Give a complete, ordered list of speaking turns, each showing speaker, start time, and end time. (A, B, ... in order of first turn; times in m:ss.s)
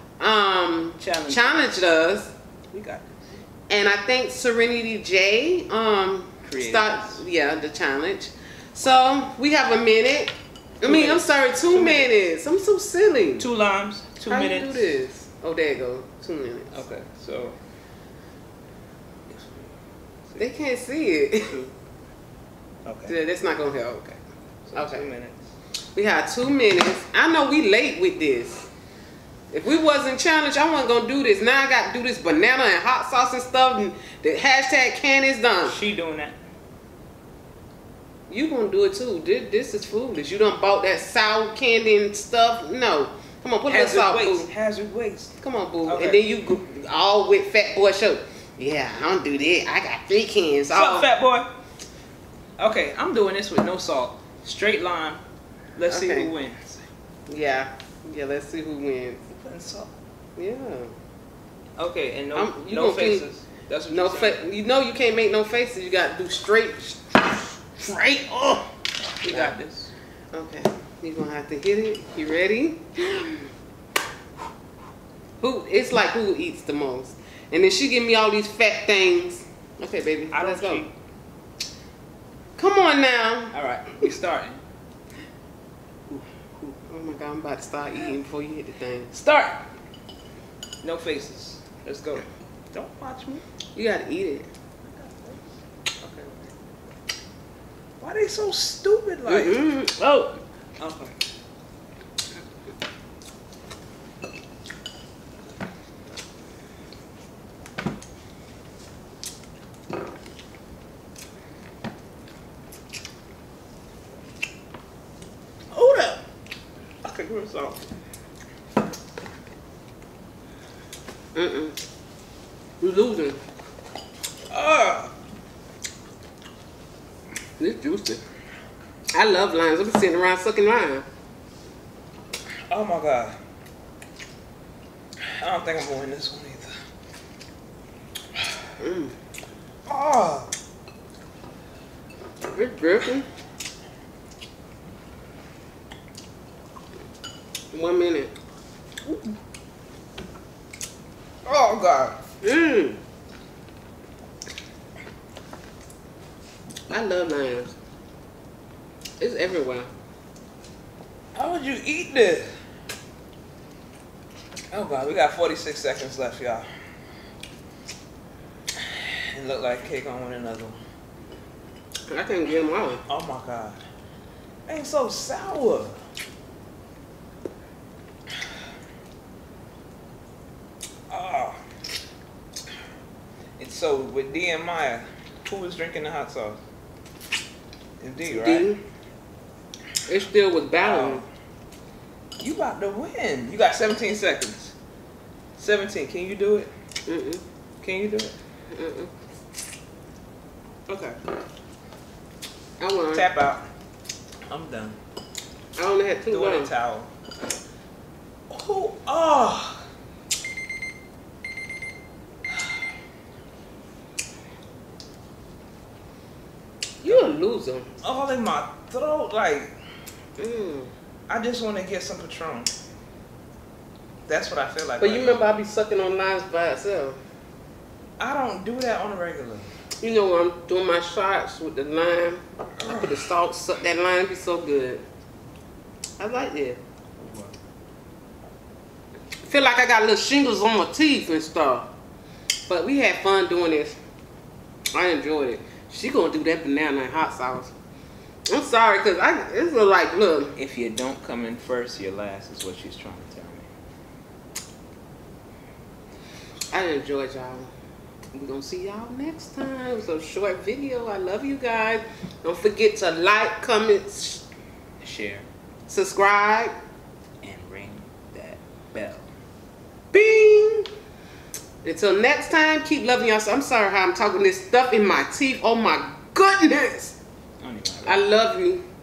0:00.2-0:02.3 A
0:01.0-0:01.8 B
0:02.7-0:03.1 B
0:03.7-0:13.5 A
0:06.4-0:07.2 B
0:10.8-0:12.1 B
0:13.4-0:15.0 B
0:14.3-0:16.8 A
0:16.7-0:17.6 B
0:19.3-0:19.7 B
0:20.4-0:21.7 A
0:22.8-0:23.1 B
0:23.1-0:24.2 A
0:24.7-0:25.4 B
0:24.7-0:25.1 A
0:25.9-0:28.7 A
0:29.5-0:35.8 A
0:35.6-0:36.4 B
0:38.3-0:44.5 A
0:43.7-0:46.2 B
0:45.4-0:51.1 A
0:50.7-0:51.5 B
0:52.6-0:55.2 B
0:55.7-0:56.8 B
0:55.9-0:56.3 A
0:57.3-0:59.2 A
0:59.3-0:59.9 B
1:00.4-1:00.9 A
1:01.8-1:04.4 B
1:02.3-1:03.2 A
1:03.9-1:08.7 A
1:09.2-1:09.5 A
1:09.2-1:09.9 B
1:10.3-1:13.5 A
1:15.4-1:20.8 A
1:20.3-1:20.9 B
1:22.6-1:23.6 A
1:23.5-1:24.6 B
1:26.1-1:26.8 B
1:26.9-1:29.2 A
1:29.1-1:29.6 B
1:30.8-1:33.4 B
1:33.7-1:34.5 A
1:34.8-1:35.4 B
1:36.0-1:36.5 B
1:38.0-1:41.1 B
1:39.3-1:39.9 A
1:55.7-1:56.2 B
1:57.0-1:57.9 B
2:01.3-2:01.8 A
2:02.8-2:03.4 A
2:04.5-2:05.1 B
2:07.6-2:08.2 A
2:09.1-2:11.0 A
2:12.7-2:13.4 B
2:15.2-2:16.8 B
2:18.8-2:19.2 A
2:19.9-2:20.5 B
2:22.5-2:23.3 A
2:27.7-2:28.3 A
2:31.4-2:32.2 B
2:32.4-2:33.0 A
2:36.9-2:37.7 A
2:39.2-2:39.9 A
2:41.3-2:42.5 B
2:44.7-2:46.7 B
2:48.8-2:50.8 B
2:52.1-2:53.0 A
2:53.0-2:53.8 B
2:54.7-2:56.0 B
3:01.1-3:01.6 B
3:03.6-3:06.6 B
3:08.0-3:08.7 B
3:08.3-3:08.8 A
3:10.1-3:11.2 A
3:10.8-3:11.2 B
3:12.4-3:14.7 B
3:15.6-3:16.7 B
3:17.1-3:17.4 A
3:17.8-3:18.4 B
3:18.7-3:19.1 A
3:20.9-3:21.2 B
3:22.8-3:23.3 A
3:23.1-3:23.6 B
3:24.5-3:25.0 B
3:25.8-3:26.7 A
3:26.3-3:27.1 B
3:28.5-3:29.8 B
3:37.0-3:37.9 A
3:37.0-3:37.3 B
3:38.0-3:39.7 B
3:40.4-3:40.9 A
3:41.3-3:42.7 B
3:44.2-3:45.5 B
3:45.0-3:47.2 A
3:48.2-3:49.7 B
3:50.0-3:55.0 A
3:52.8-3:53.1 B
3:56.2-3:56.8 A
3:57.2-3:57.5 B
3:59.4-4:01.9 A
4:02.7-4:04.0 A
4:04.9-4:07.7 A
4:08.5-4:10.6 A
4:10.6-4:13.7 B
4:16.7-4:17.7 A
4:18.3-4:24.4 A
4:25.0-4:25.4 B
4:25.9-4:26.7 A
4:27.4-4:29.3 B
4:30.1-4:30.9 A
4:31.8-4:37.2 A
4:37.6-4:38.3 B
4:38.0-4:38.8 A